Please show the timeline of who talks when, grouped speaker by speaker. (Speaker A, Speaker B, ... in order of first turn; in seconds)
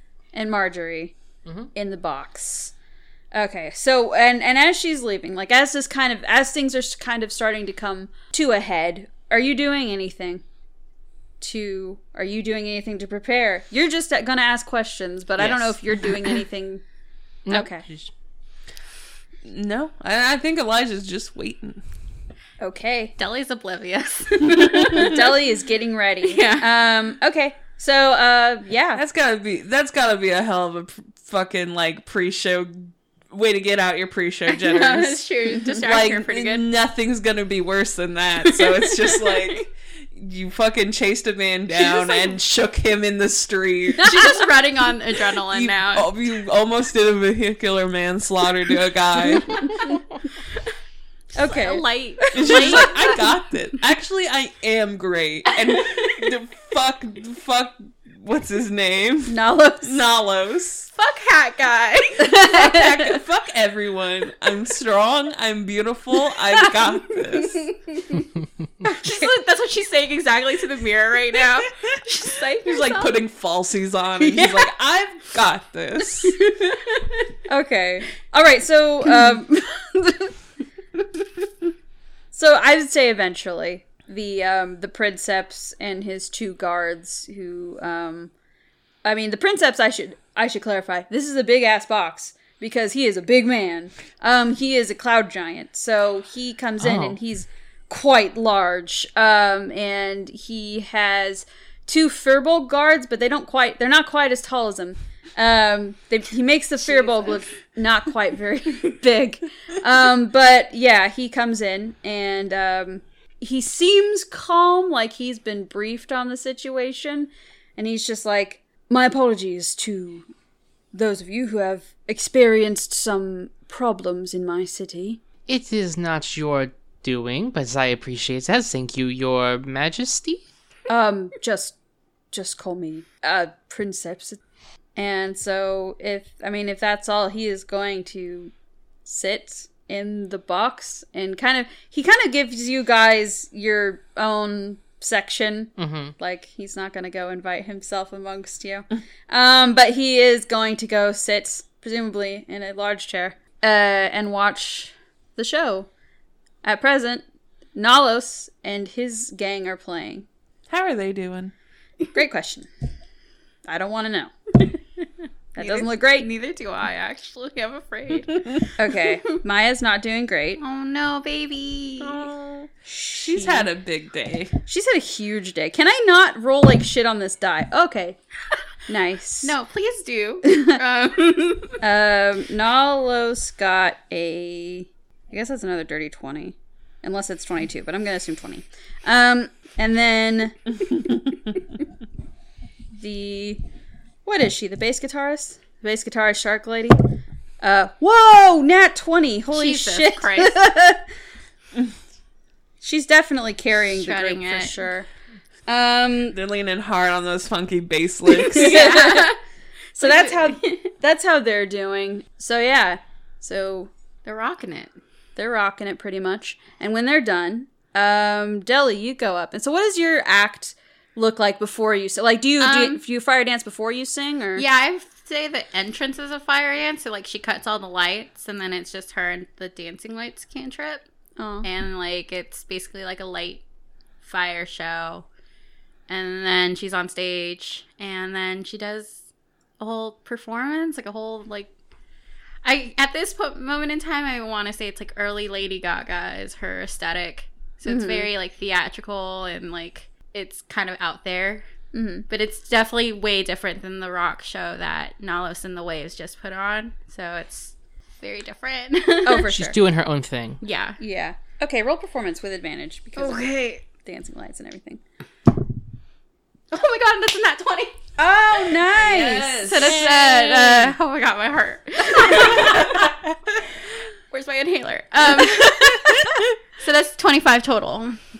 Speaker A: 0.3-1.1, 1.8-2.7, 3.3-10.4, 11.4-16.8, 17.5-17.9, 22.6-23.1, 24.7-29.0, 51.4-51.8, 52.5-52.8, 59.3-60.0, 62.3-62.6, 77.5-80.3, 82.3-88.3, 89.0-120.3, 120.9-125.2, 130.9-131.8, 132.3-134.4, 135.0-138.5, 139.1-155.9, 156.6-157.2, 157.8-160.3, 162.1-162.7, 163.7-164.3, 165.6-166.3, 168.8-170.6, 172.9-173.7, 174.7-178.2, 178.9-179.5, 180.4-180.7, 181.8-191.6, 192.9-193.6, 194.2-197.0, 197.6-201.0, 202.8-205.1, 205.7-206.4, 208.5-209.3, 210.0-213.9, 215.4-224.6, 231.4-231.7, 247.9-248.3, 251.9-252.2, 259.2-259.8, 261.0-265.0, 268.2-269.9
Speaker B: 15.4-16.2, 17.5-18.1, 96.8-97.2, 125.5-130.4, 145.8-146.1, 259.5-260.6
Speaker C: 19.4-21.8, 24.5-25.1, 28.9-44.4, 45.5-49.8, 52.3-60.9, 62.3-67.7, 72.6-76.4, 160.7-161.5, 172.0-174.6, 206.3-209.0, 268.8-271.0, 272.1-273.6, 275.4-276.5
Speaker D: 23.2-25.4, 26.2-26.7, 34.5-36.7, 38.5-39.6, 41.8-42.3, 44.0-46.1, 49.5-50.0, 51.4-53.2, 55.7-56.3, 61.0-62.7, 67.3-68.3, 68.8-73.2, 76.2-77.3, 106.8-107.4, 165.6-169.2, 170.6-172.3, 179.4-181.8, 199.5-200.6, 203.9-204.8, 208.5-209.4, 210.0-210.8, 214.2-214.9, 222.6-223.0, 224.6-231.1, 231.6-233.6, 234.2-235.3, 236.1-239.2, 239.8-241.7, 242.6-251.6, 252.3-259.5, 260.6-261.0, 263.2-263.8, 266.7-268.0, 269.6-273.1, 274.3-278.2